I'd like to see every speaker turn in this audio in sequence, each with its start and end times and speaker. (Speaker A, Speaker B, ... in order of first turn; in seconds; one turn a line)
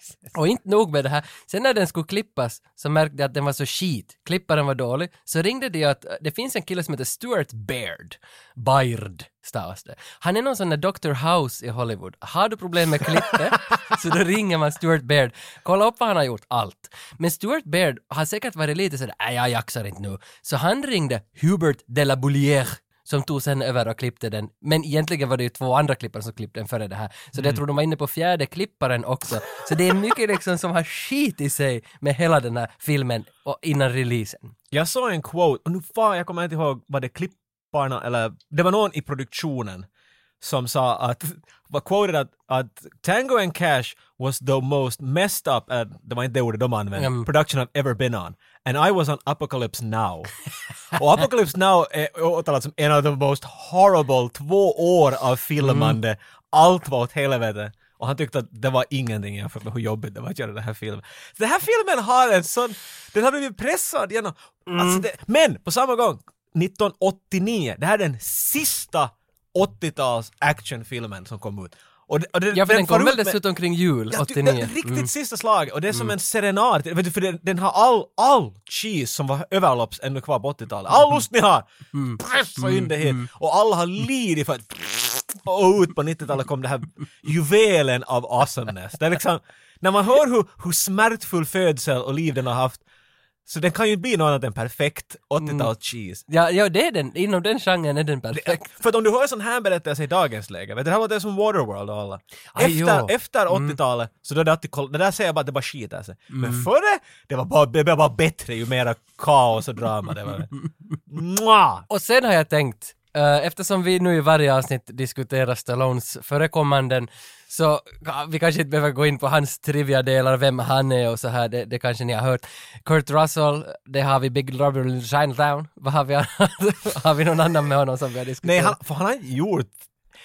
Speaker A: 0.3-34.5
Speaker B: 27.3-27.6
Speaker B: 34.7-39.9
Speaker B: 40.4-50.3
Speaker A: 47.0-47.3
Speaker B: 50.9-73.4
Speaker A: 55.6-56.0
Speaker A: 64.7-65.0
Speaker A: 72.5-75.1
Speaker B: 74.1-81.7
Speaker A: 81.9-83.3
Speaker B: 82.2-92.8
Speaker B: 93.5-96.2
Speaker A: 95.4-95.7
Speaker A: 96.3-98.7
Speaker B: 98.3-110.5
Speaker A: 102.5-103.8
Speaker A: 106.3-106.7
Speaker B: 111.1-111.8
Speaker A: 111.9-128.8
Speaker B: 128.4-129.8